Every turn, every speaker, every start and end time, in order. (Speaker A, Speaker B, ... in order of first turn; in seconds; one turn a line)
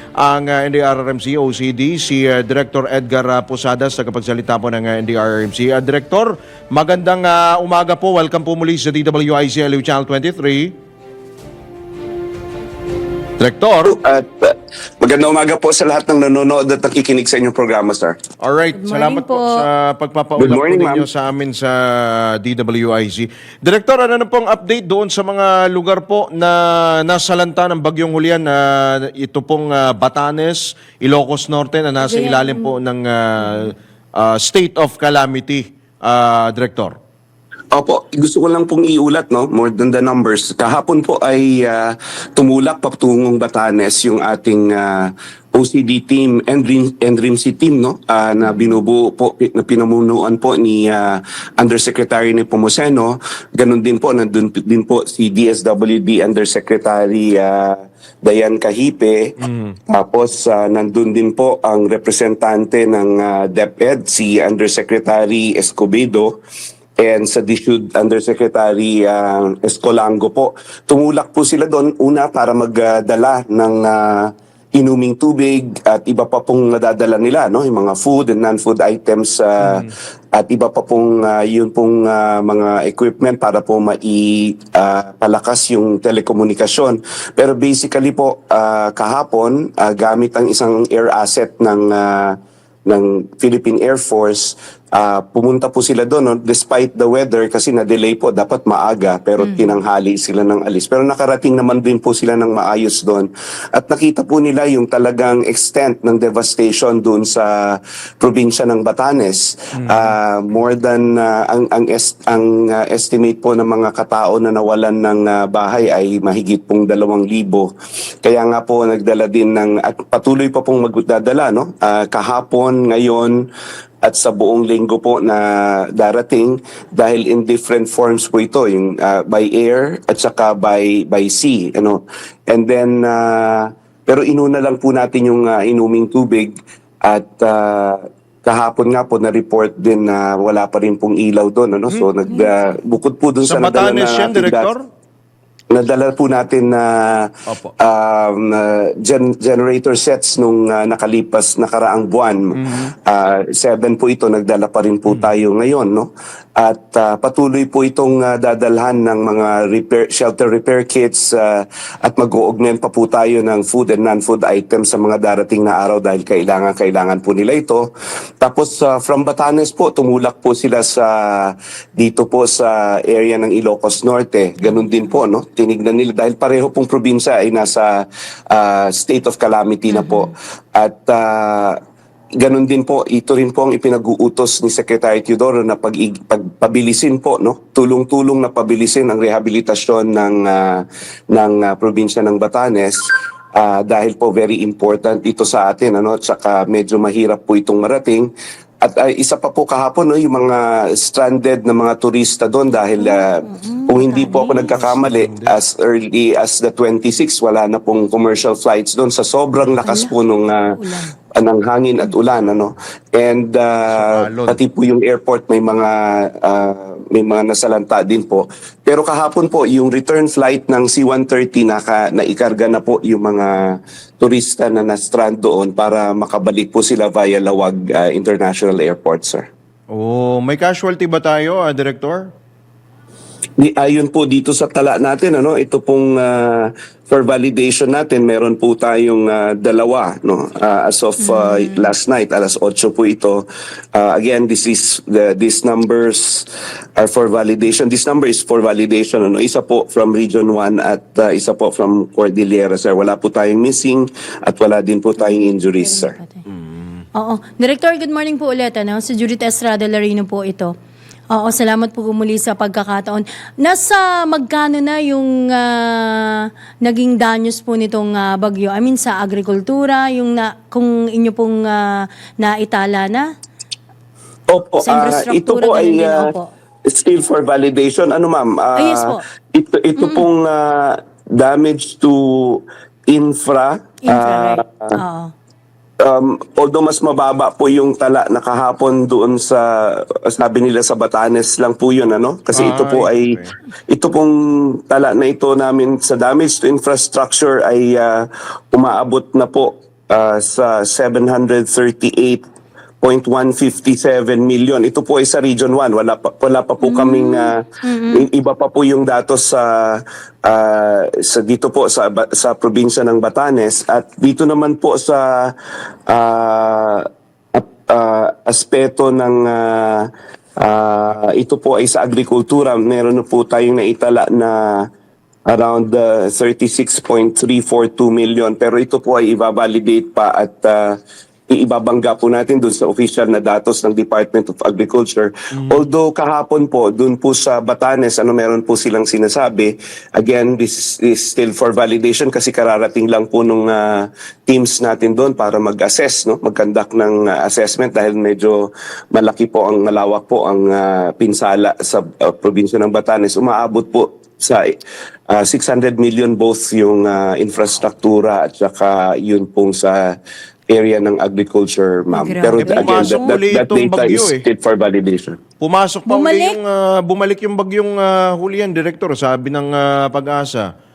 Speaker A: 0.2-10.8
Speaker A: 13.4-13.9
Speaker B: 13.8-18.2
Speaker A: 18.4-37.0
Speaker C: 18.8-19.6
Speaker B: 20.4-21.1
Speaker C: 32.0-32.8
Speaker B: 37.7-59.4
Speaker C: 48.4-48.8
Speaker A: 59.4-59.8
Speaker B: 59.9-66.4
Speaker B: 67.0-92.4
Speaker A: 79.6-79.9
Speaker B: 92.9-117.7
Speaker C: 99.4-99.8
Speaker A: 109.8-110.2
Speaker B: 118.2-123.5
Speaker B: 124.0-144.7
Speaker A: 143.4-144.9
Speaker B: 145.7-167.9
Speaker A: 152.5-152.9
Speaker A: 155.1-155.3
Speaker B: 168.4-181.8
Speaker C: 179.9-180.3
Speaker B: 182.4-193.0
Speaker B: 193.6-198.3
Speaker B: 198.8-210.8
Speaker C: 203.0-204.7
Speaker A: 204.4-205.6
Speaker C: 209.8-210.1
Speaker C: 210.7-211.1
Speaker B: 211.3-229.5
Speaker A: 213.9-214.6
Speaker A: 229.9-232.3
Speaker B: 233.6-256.2
Speaker C: 241.2-241.9
Speaker C: 255.2-256.4
Speaker A: 256.5-257.0
Speaker C: 257.1-260.7
Speaker C: 261.3-271.9
Speaker C: 272.4-273.3
Speaker B: 274.5-276.3
Speaker C: 274.8-276.5
Speaker B: 276.9-285.0
Speaker C: 278.8-279.2
Speaker C: 280.0-280.3
Speaker C: 284.1-285.3
Speaker B: 286.0-302.4
Speaker A: 292.6-293.5
Speaker B: 303.0-315.5
Speaker C: 306.8-308.3
Speaker B: 316.1-320.1
Speaker B: 320.6-324.9
Speaker B: 325.5-331.0
Speaker B: 331.5-354.7
Speaker A: 335.6-335.9
Speaker B: 355.3-360.1
Speaker B: 360.7-365.4
Speaker C: 362.1-363.4
Speaker A: 362.6-364.4
Speaker A: 365.6-370.7
Speaker C: 366.1-366.6